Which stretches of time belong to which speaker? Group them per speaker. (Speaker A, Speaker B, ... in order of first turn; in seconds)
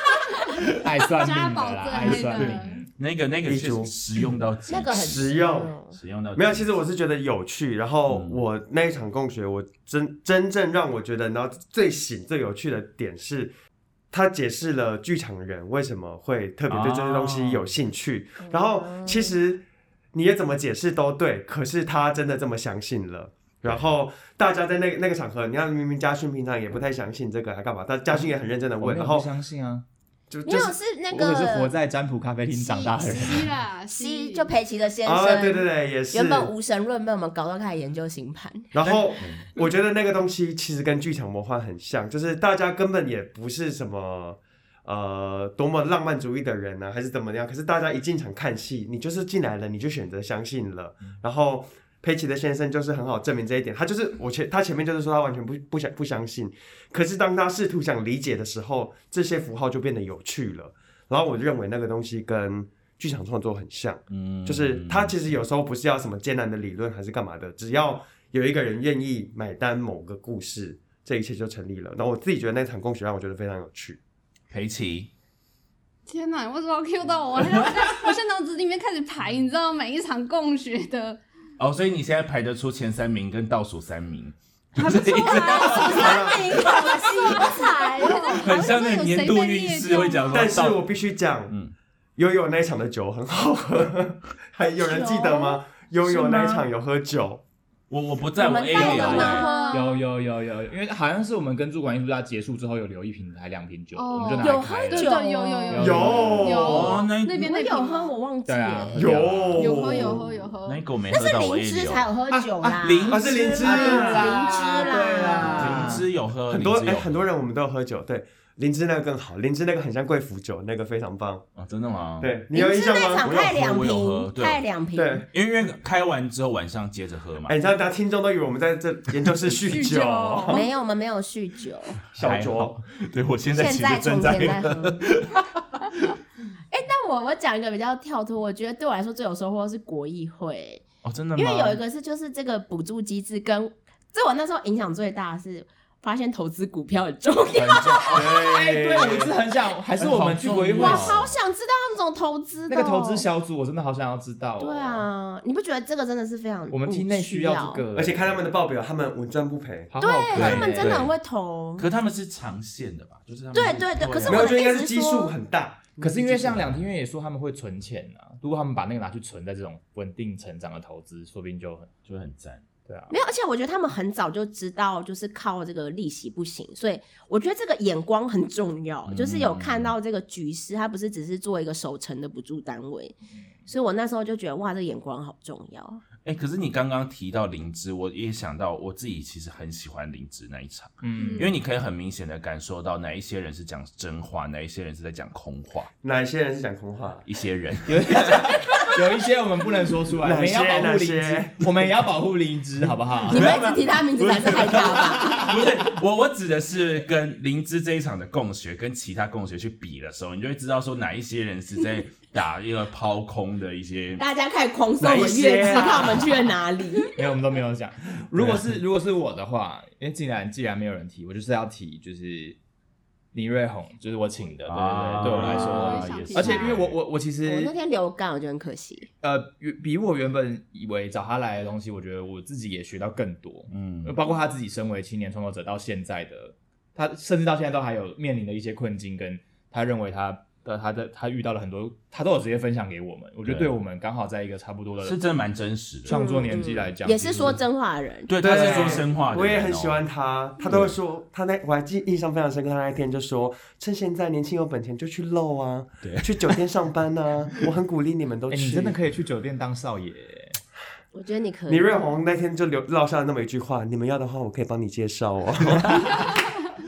Speaker A: 0.8-2.9, 28.8-29.9, 31.1-33.5, 98.9-106.7, 108.5-109.5, 112.3-116.1, 148.1-151.3, 152.7-155.1, 156.7-158.4, 159.9-161.1, 166.0-171.9, 172.9-173.2, 191.0-191.5, 197.9-203.6, 204.9-205.6, 217.2-222.6, 223.3-227.7, 229.2-245.2, 246.1-247.6, 248.4-249.0, 258.5-260.6
Speaker B: 1.2-2.8, 33.1-34.5, 76.1-81.2, 84.8-90.6, 98.7-100.0, 104.0-108.2, 109.6-110.9, 129.7-130.7, 191.2-191.5, 225.3-226.9
Speaker C: 2.4-6.7, 8.1-8.4, 16.7-17.6, 38.9-39.5, 64.1-65.2, 74.5-75.1, 77.6-77.9, 81.6-86.9, 88.4-90.8, 91.5-91.7, 97.9-99.5, 106.6-107.4, 109.2-109.9, 110.7-112.1, 112.8-114.5, 115.4-117.2, 121.6-122.3, 123.2-124.6, 125.3-127.6, 132.1-136.2, 141.0-141.8, 147.5-149.3, 150.0-151.4, 160.3-161.1, 161.8-164.6, 172.1-172.6, 179.1-179.9, 186.2-195.9, 197.3-198.8, 203.3-214.2, 215.0-216.2, 224.7-227.0, 233.7-234.2, 243.4-243.7, 245.0-246.2, 248.3-250.1, 250.7-250.9, 256.0-256.6
Speaker D: 3.5-3.9, 5.0-5.7, 6.4-13.5, 14.1-29.3, 30.3-30.8, 35.0-36.5, 38.7-74.0, 85.9-86.6, 90.3-91.5, 92.2-97.4, 105.8-107.0, 108.9-110.2, 113.1-114.5, 116.5-121.5, 122.2-123.3, 124.9-125.3, 127.5-130.6, 132.1-132.8, 157.9-159.9, 164.2-166.7, 196.0-197.2, 200.2-201.7, 215.0-216.3, 248.4-259.0, 261.7-266.4
Speaker E: 4.7-6.0, 18.4-19.3, 30.5-31.7, 32.5-33.1, 33.9-38.7, 85.3-88.5, 94.8-95.6, 96.2-96.5, 98.4-99.9, 104.4-105.8, 107.4-109.1, 111.1-116.0, 122.5-125.2, 130.5-132.0, 133.5-135.0, 136.7-140.8, 141.4-148.5, 150.7-153.2, 154.6-157.8, 160.0-161.9, 163.5-165.3, 173.1-183.2, 183.7-186.0, 203.3-205.6, 214.2-217.2, 227.4-229.1, 246.1-248.3, 261.1-261.9